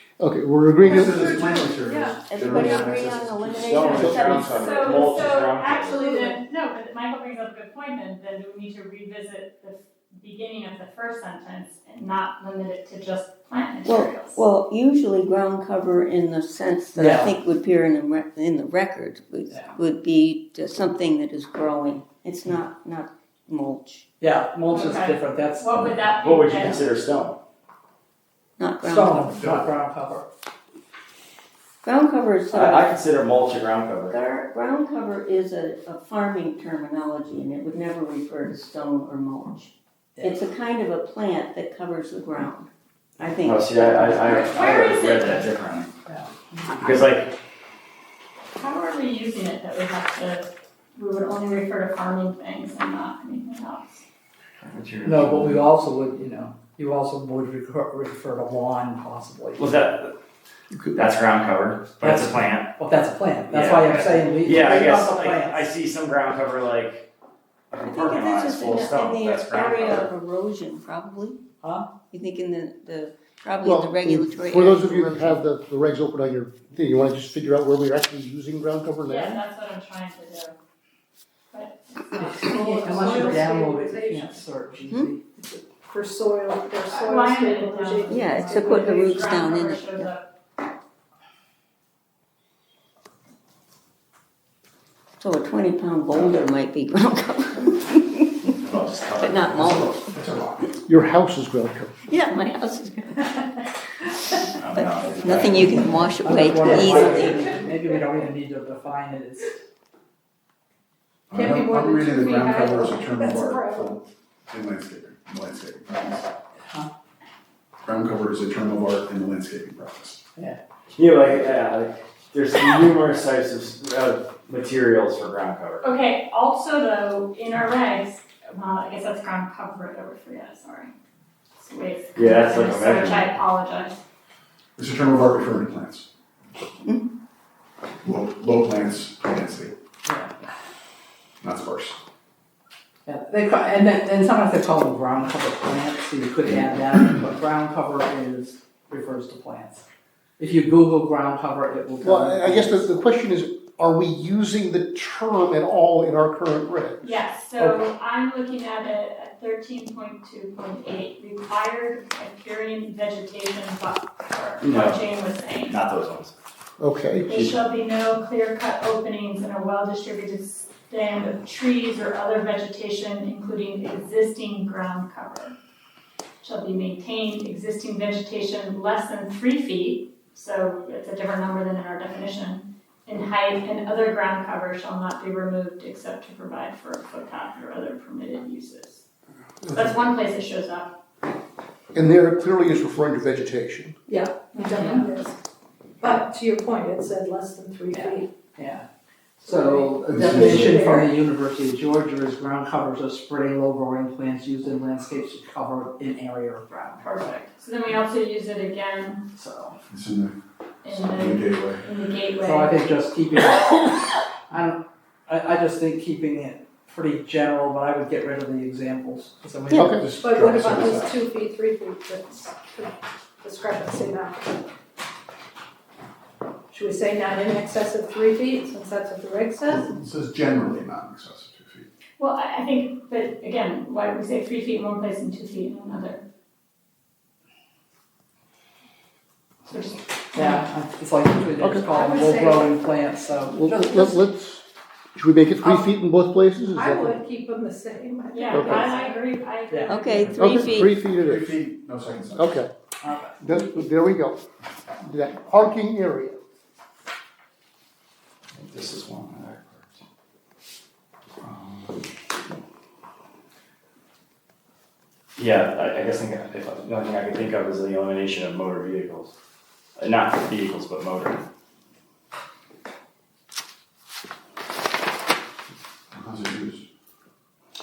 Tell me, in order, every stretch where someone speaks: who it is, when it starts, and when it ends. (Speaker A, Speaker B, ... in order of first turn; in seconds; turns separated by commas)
Speaker A: 0.2-1.4, Speaker B: 0.8-3.4, Speaker C: 1.8-5.2, Speaker D: 3.4-6.1, Speaker A: 4.0-4.4, Speaker E: 4.5-14.4, Speaker C: 13.8-24.1, Speaker F: 16.9-17.3, Speaker F: 19.5-19.8, Speaker F: 24.2-25.9, Speaker E: 24.7-26.9, Speaker D: 26.2-27.4, Speaker C: 28.6-29.4, Speaker F: 28.8-30.2, Speaker B: 29.4-29.6, Speaker C: 31.8-33.1, Speaker D: 32.5-34.2, Speaker C: 34.1-44.6, Speaker D: 43.4-45.9, Speaker E: 44.6-45.2, Speaker F: 46.0-46.9, Speaker D: 46.8-47.3, Speaker E: 48.5-54.0, Speaker D: 54.6-55.6, Speaker F: 55.0-59.6, Speaker D: 59.6-60.1, Speaker A: 60.7-61.1, Speaker D: 61.0-67.1, Speaker F: 62.0-65.7, Speaker D: 67.7-70.1, Speaker C: 67.8-71.4, Speaker F: 71.6-71.9, Speaker C: 72.1-75.4, Speaker A: 73.6-79.4, Speaker E: 79.0-80.6, Speaker E: 81.5-83.3, Speaker F: 82.2-85.2, Speaker G: 82.4-84.4, Speaker C: 84.9-85.2, Speaker G: 85.3-89.0, Speaker E: 86.9-90.3, Speaker C: 88.1-90.1, Speaker C: 95.2-98.6, Speaker D: 98.7-99.8, Speaker C: 99.1-100.1, Speaker B: 99.4-100.7, Speaker A: 100.8-101.9, Speaker C: 102.1-107.5, Speaker D: 104.5-105.7, Speaker F: 106.2-109.6, Speaker D: 106.7-107.0, Speaker B: 111.3-116.3, Speaker G: 111.3-114.0, Speaker F: 116.6-116.9, Speaker B: 117.8-120.2, Speaker D: 121.0-125.8, Speaker E: 125.8-130.9, Speaker E: 131.6-134.0, Speaker D: 132.2-133.3, Speaker B: 134.8-136.1, Speaker B: 138.0-139.7, Speaker F: 140.1-140.3, Speaker B: 141.4-142.0, Speaker F: 143.1-149.8, Speaker F: 150.4-152.8, Speaker A: 152.0-157.1, Speaker E: 157.0-165.8, Speaker D: 164.6-165.1, Speaker D: 165.7-166.3, Speaker A: 166.8-167.3, Speaker E: 167.3-175.6, Speaker E: 176.4-189.0, Speaker A: 189.6-190.0, Speaker E: 189.7-190.9, Speaker A: 191.9-194.0, Speaker G: 194.1-195.4, Speaker E: 194.7-195.0, Speaker G: 196.0-198.3, Speaker F: 197.9-198.9, Speaker F: 199.4-207.0, Speaker G: 199.4-201.1, Speaker B: 200.0-201.1, Speaker E: 207.0-209.2, Speaker F: 209.4-209.8, Speaker B: 209.9-210.3, Speaker E: 210.8-212.8, Speaker B: 210.9-211.8, Speaker F: 212.4-220.0, Speaker A: 219.7-220.1, Speaker B: 219.9-221.2, Speaker G: 220.2-224.6, Speaker G: 226.7-229.9, Speaker B: 229.7-231.9, Speaker E: 232.2-236.2, Speaker E: 239.7-240.6, Speaker F: 240.3-244.2, Speaker A: 241.6-241.9, Speaker G: 241.9-242.8, Speaker A: 243.5-244.6, Speaker A: 245.2-247.2, Speaker G: 245.6-245.9, Speaker G: 246.7-249.2, Speaker E: 248.3-250.5, Speaker A: 248.5-248.9, Speaker F: 249.7-250.2, Speaker C: 249.9-250.9, Speaker A: 250.3-251.6, Speaker B: 250.9-252.5, Speaker A: 252.3-252.7, Speaker F: 253.0-253.6, Speaker A: 253.4-254.4, Speaker A: 255.0-256.4, Speaker D: 258.6-260.0, Speaker D: 261.4-261.9, Speaker D: 265.4-269.3, Speaker D: 270.0-271.4, Speaker B: 276.1-276.8